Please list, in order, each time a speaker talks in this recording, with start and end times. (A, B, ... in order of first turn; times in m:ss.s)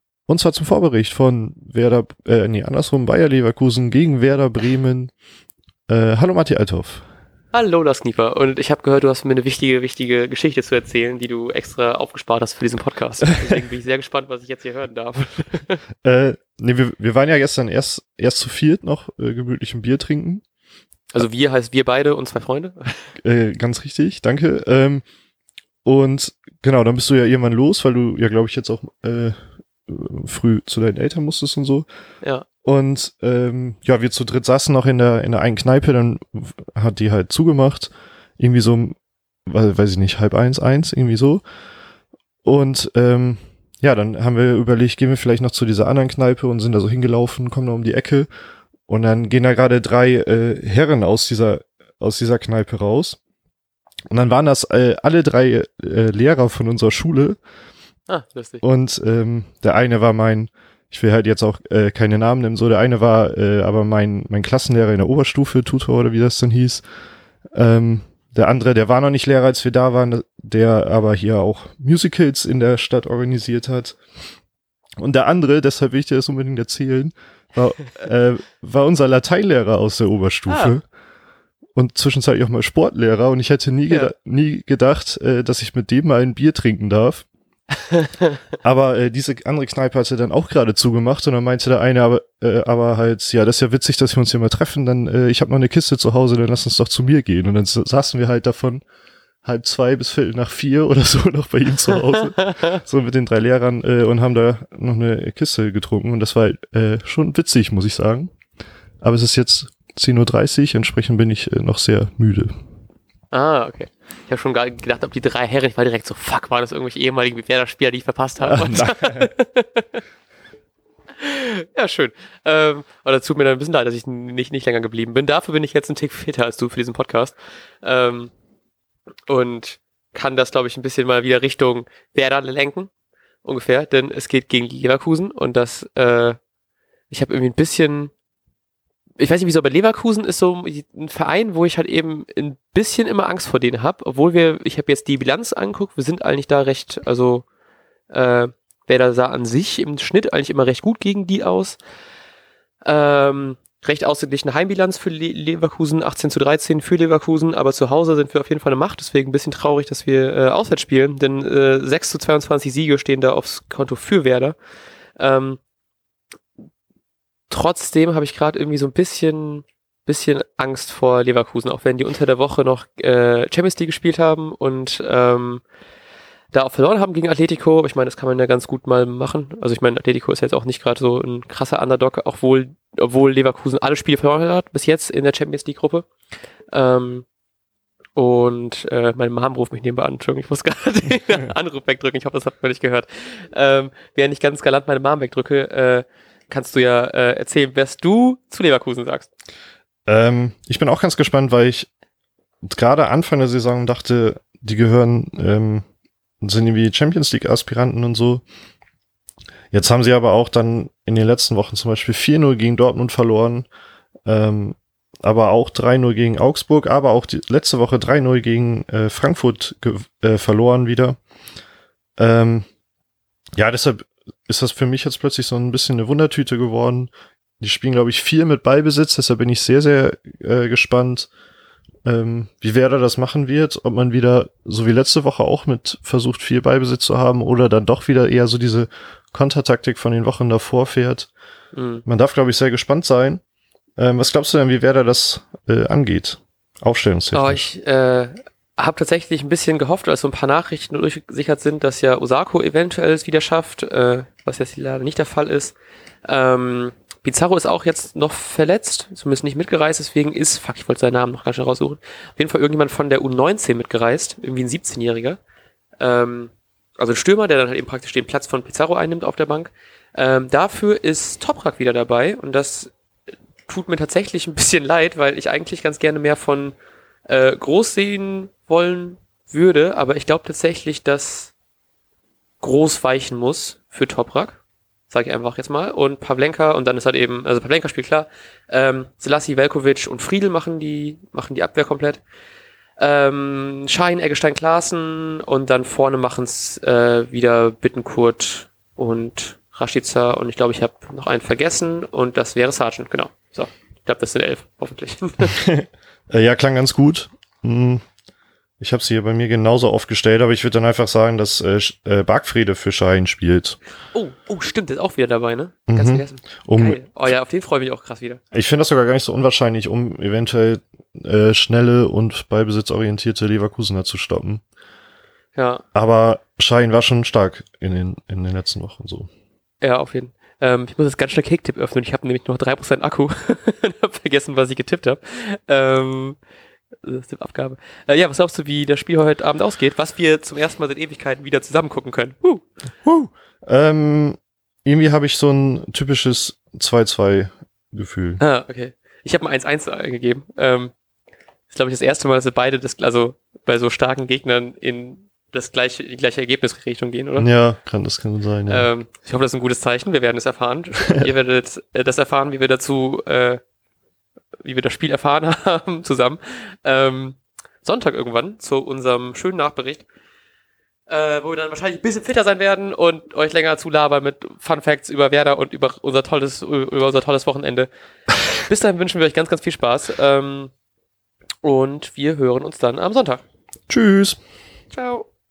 0:00.3-0:05.1 A
0:05.9-0:07.0 A
0:07.5-0:15.8 B
0:16.0-0:20.4 A
0:21.1-0:23.1 B
0:23.2-0:25.0 A
0:25.8-0:31.9 A
0:32.6-0:39.0 A
0:39.5-0:41.4 A
0:42.4-0:48.3 A
0:48.9-0:53.2 A
0:54.1-0:57.4 A
0:58.1-0:58.6 B
0:58.6-1:06.8 A
1:07.6-1:14.0 A
1:15.0-1:20.8 A
1:20.5-1:20.8 B
1:21.8-1:27.3 A
1:28.6-1:38.8 A
1:39.4-1:48.3 A
1:49.0-1:52.5 A
1:53.3-2:00.0 B
1:58.4-1:59.3 A
2:01.2-2:08.3 B
2:09.3-2:12.9 B
2:13.4-2:16.4 B
2:17.1-2:18.1 B
2:19.2-2:27.4 B
2:28.1-2:31.8 B
2:32.8-2:44.6 B
2:45.2-2:45.6 B
2:47.5-2:55.6 B
2:56.5-3:06.1 B
3:06.7-3:07.3 B
3:08.2-3:19.3 B
3:20.1-3:21.9 A
3:22.6-3:25.8 A
3:26.4-3:28.4 A
3:29.7-3:33.7 A
3:34.3-3:41.2 A
3:42.2-3:42.7 A
3:43.6-3:51.3 A
3:52.1-4:01.3 A
4:01.7-4:02.0 B
4:02.1-4:03.4 A
4:04.0-4:07.7 A
4:07.3-4:25.4 B
4:26.0-4:32.9 B
4:33.7-4:36.8 B
4:37.3-4:41.5 B
4:42.6-4:44.6 B
4:45.1-4:52.2 B
4:53.0-5:05.6 B
5:05.5-5:08.0 A
5:08.8-5:13.8 A
5:14.1-5:18.4 B
5:15.9-5:17.0 A
5:18.5-5:24.6 A
5:25.6-5:25.8 B
5:26.0-5:29.3 A
5:29.8-5:36.4 B
5:37.0-5:42.7 B
5:43.0-5:48.4 A
5:48.4-5:50.9 B
5:51.7-5:57.5 B
5:57.4-5:58.9 A
5:58.7-6:03.6 B
6:04.6-6:10.0 B
6:11.1-6:17.9 B
6:18.6-6:20.7 B
6:21.6-6:23.4 B
6:23.9-6:24.4 A
6:24.9-6:25.3 B